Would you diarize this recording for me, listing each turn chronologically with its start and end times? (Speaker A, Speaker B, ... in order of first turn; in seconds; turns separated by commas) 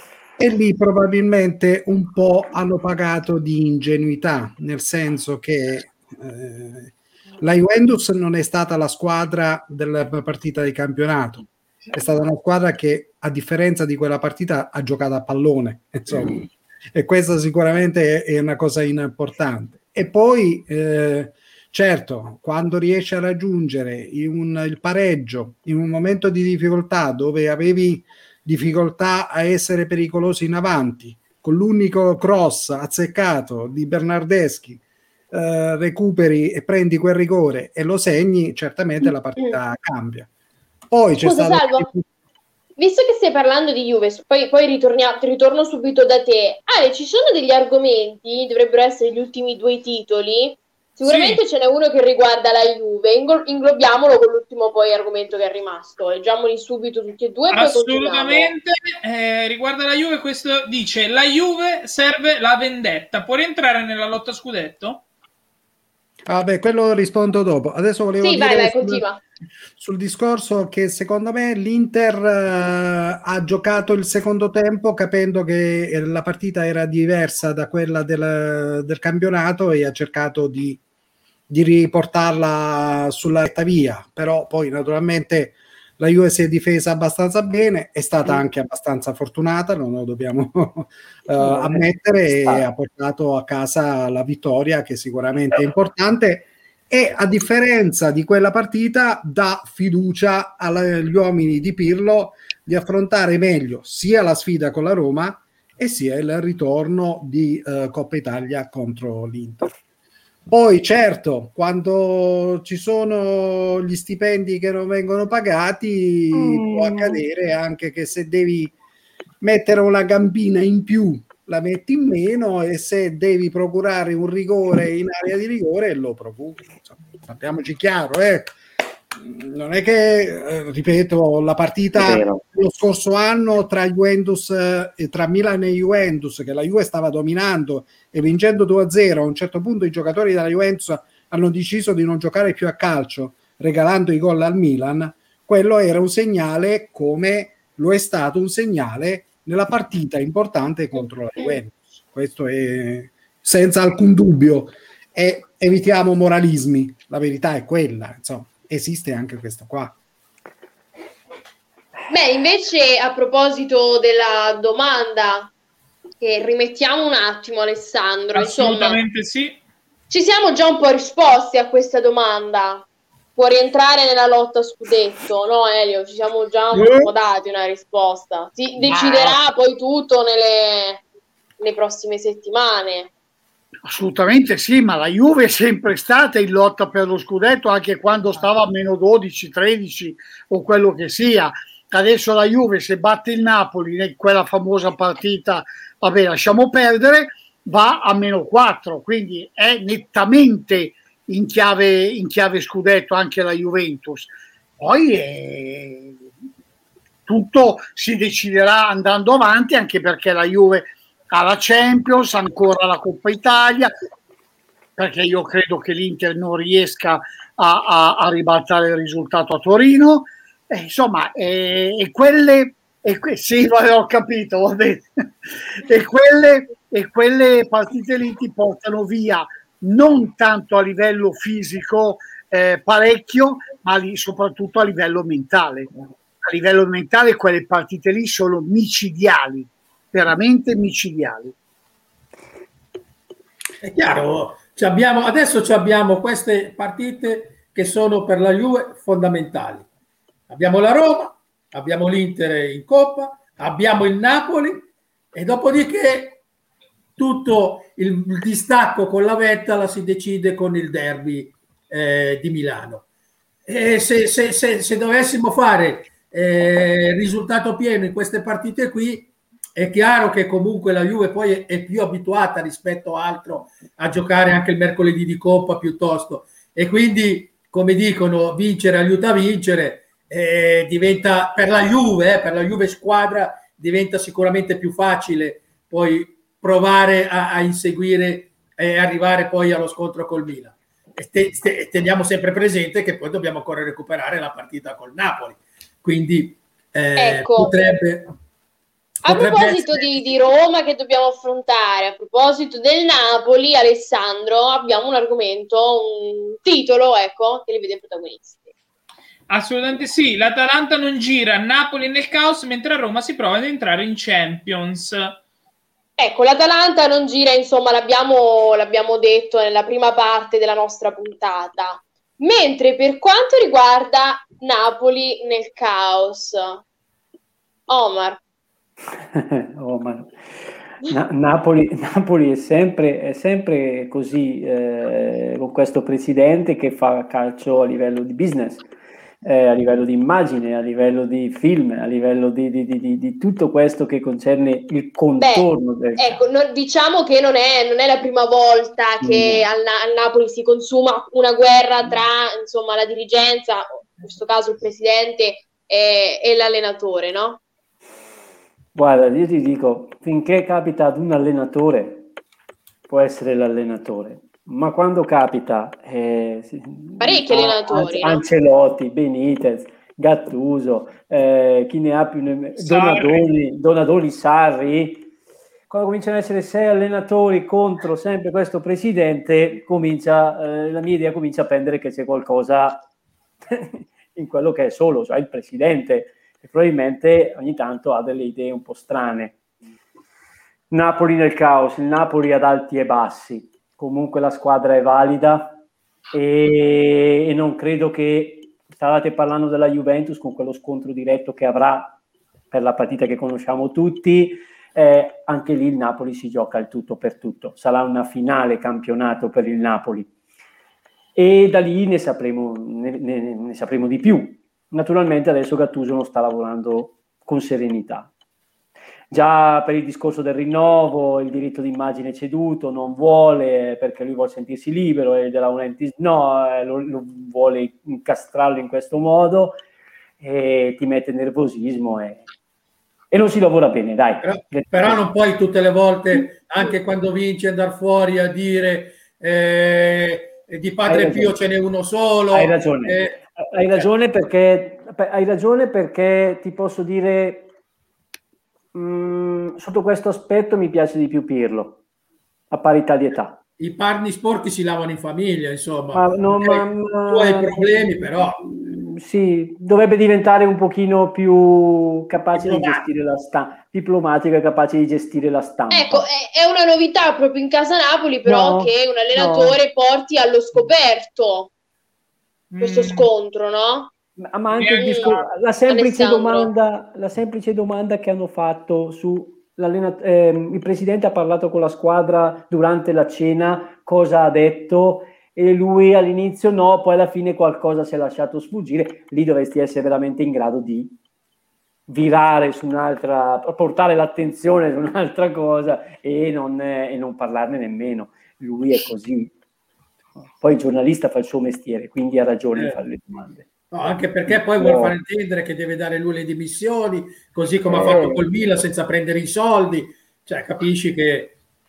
Speaker A: 0.4-40.3, Speaker A: 40.9-42.0, Speaker B: 41.2-41.9, Speaker B: 42.8-58.5, Speaker C: 51.0-51.4, Speaker C: 57.5-65.0, Speaker A: 66.3-69.0, Speaker B: 68.2-69.2, Speaker A: 69.8-80.8, Speaker A: 81.5-109.7, Speaker D: 91.4-92.7, Speaker A: 110.5-118.7, Speaker D: 116.3-117.2, Speaker A: 119.4-128.6, Speaker A: 129.2-159.9, Speaker D: 131.9-132.4, Speaker B: 162.1-165.5, Speaker B: 166.2-169.0, Speaker C: 168.3-169.6, Speaker B: 170.1-181.0, Speaker E: 176.7-177.1, Speaker E: 178.8-179.4, Speaker B: 181.6-183.1, Speaker E: 183.9-206.2, Speaker E: 207.3-213.9, Speaker E: 215.0-225.1, Speaker E: 225.7-235.9, Speaker E: 236.4-241.5, Speaker F: 243.8-249.9, Speaker F: 250.5-256.4, Speaker F: 257.2-263.1, Speaker F: 263.7-298.4, Speaker B: 297.2-297.8, Speaker F: 299.3-300.3, Speaker B: 299.3-308.7, Speaker C: 309.5-315.4, Speaker B: 316.2-326.8, Speaker B: 327.9-328.4, Speaker D: 329.1-338.9, Speaker D: 339.4-346.4, Speaker B: 345.4-357.6, Speaker D: 349.2-349.6, Speaker D: 358.9-362.3, Speaker D: 363.1-375.3, Speaker B: 367.2-368.4, Speaker C: 372.8-373.5, Speaker D: 375.9-383.1, Speaker D: 383.7-389.6, Speaker D: 390.9-395.8, Speaker D: 396.3-402.2, Speaker D: 402.7-410.3, Speaker D: 411.4-418.3, Speaker D: 419.3-429.8, Speaker D: 430.4-432.4, Speaker D: 433.3-435.2, Speaker F: 434.4-444.1, Speaker D: 441.1-441.6, Speaker D: 442.5-447.7, Speaker D: 448.9-452.0, Speaker D: 452.7-453.6, Speaker F: 453.8-458.6, Speaker D: 456.1-466.3, Speaker F: 462.5-463.0, Speaker B: 465.9-471.7, Speaker D: 468.4-469.8, Speaker C: 472.7-473.3, Speaker B: 472.8-474.1, Speaker D: 474.4-491.2, Speaker C: 474.7-475.4, Speaker B: 475.9-476.7, Speaker D: 492.1-499.5, Speaker D: 500.5-503.7, Speaker F: 503.9-511.6, Speaker D: 504.5-505.2, Speaker D: 507.9-508.4